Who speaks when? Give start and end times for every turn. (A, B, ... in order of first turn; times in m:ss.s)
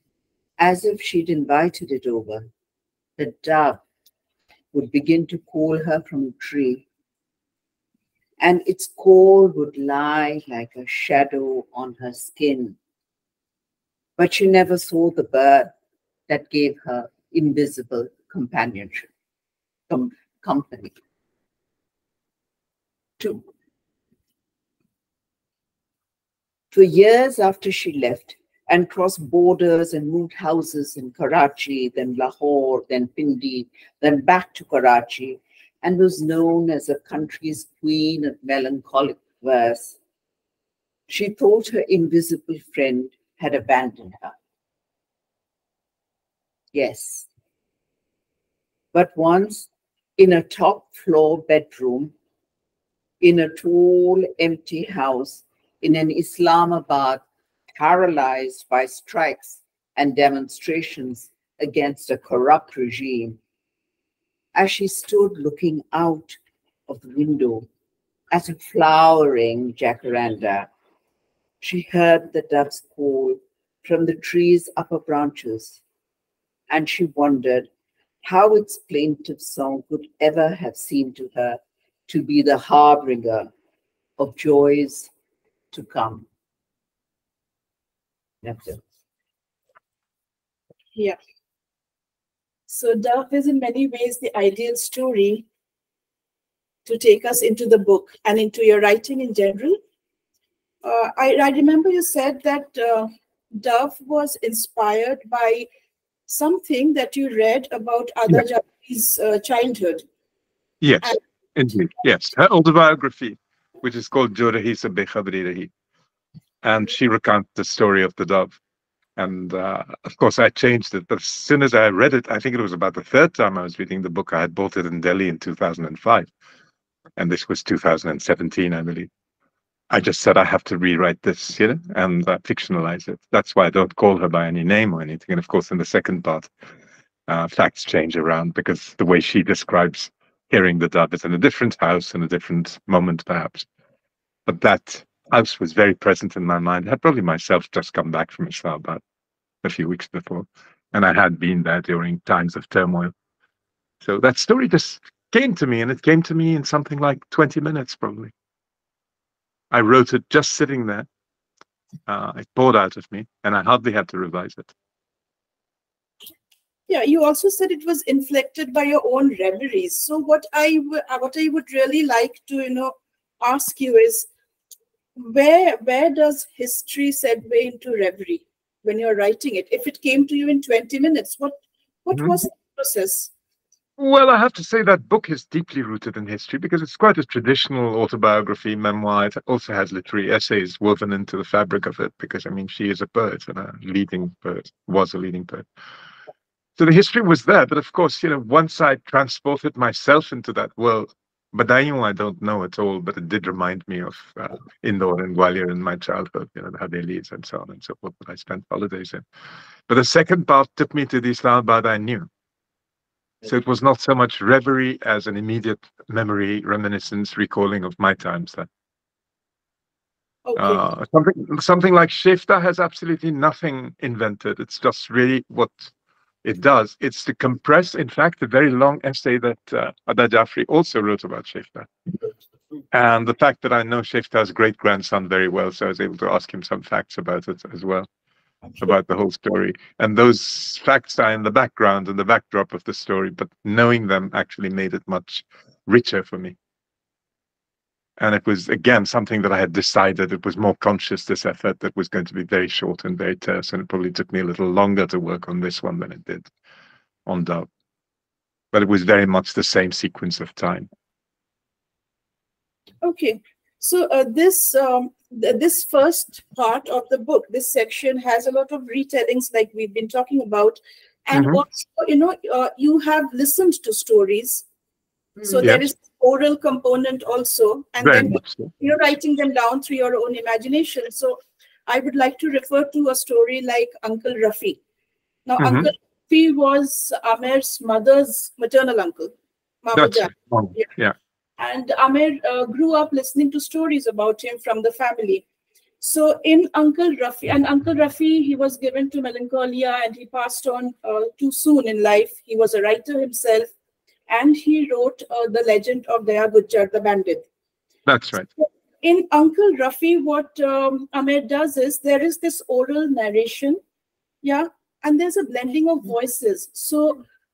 0:00.6-0:02.5 A
0:03.2-0:03.8 A
0:04.7-0:06.8 A
0:08.4-0:12.8 A
0:14.2-0:15.7 A
0:16.3-0:19.1 A
0:19.9-0:20.9 A
0:23.2-0:23.4 A
0:26.7-0:40.0 A
0:41.1-0:44.4 A
0:46.7-0:47.3 A
0:48.9-0:52.1 A
0:53.2-0:57.2 A
0:57.8-1:03.4 A
1:04.6-1:07.7 A
1:08.3-1:10.7 A
1:11.6-1:15.8 A
1:16.7-1:17.7 A
1:18.2-1:23.5 A
1:24.2-1:25.1 A
1:25.7-1:26.3 A
1:28.4-1:28.8 A
1:32.7-1:35.4 B
1:36.9-1:39.8 B
1:40.8-1:45.7 B
1:46.3-1:50.1 B
1:50.8-1:55.7 C
1:56.6-1:58.6 C
1:59.2-2:06.3 C
2:07.2-2:09.1 C
2:09.9-2:16.5 C
2:17.3-2:23.7 C
2:24.5-2:29.0 C
2:29.6-2:33.1 C
2:34.0-2:38.3 C
2:39.7-2:41.1 C
2:42.1-2:44.7 C
2:46.9-2:54.3 B
2:55.2-3:03.3 B
3:04.0-3:15.7 C
3:16.8-3:29.2 C
3:29.9-3:32.3 C
3:33.4-3:38.7 C
3:40.5-3:40.8 B
3:40.6-3:45.9 C
3:46.4-3:51.9 C
3:52.9-3:58.1 C
3:58.8-4:06.6 C
4:08.2-4:16.5 C
4:17.3-4:17.7 C
4:18.7-4:20.9 C
4:23.0-4:34.6 B
4:31.3-4:31.6 C
4:35.4-4:44.8 B
4:38.0-4:38.7 C
4:45.5-4:49.3 B
4:45.6-4:45.9 C
4:49.8-4:50.9 B
4:50.0-4:51.2 C
4:51.6-4:55.4 B
4:56.0-5:03.7 B
5:04.3-5:07.4 B
5:08.1-5:08.5 C
5:08.6-5:13.8 B
5:14.4-5:17.2 B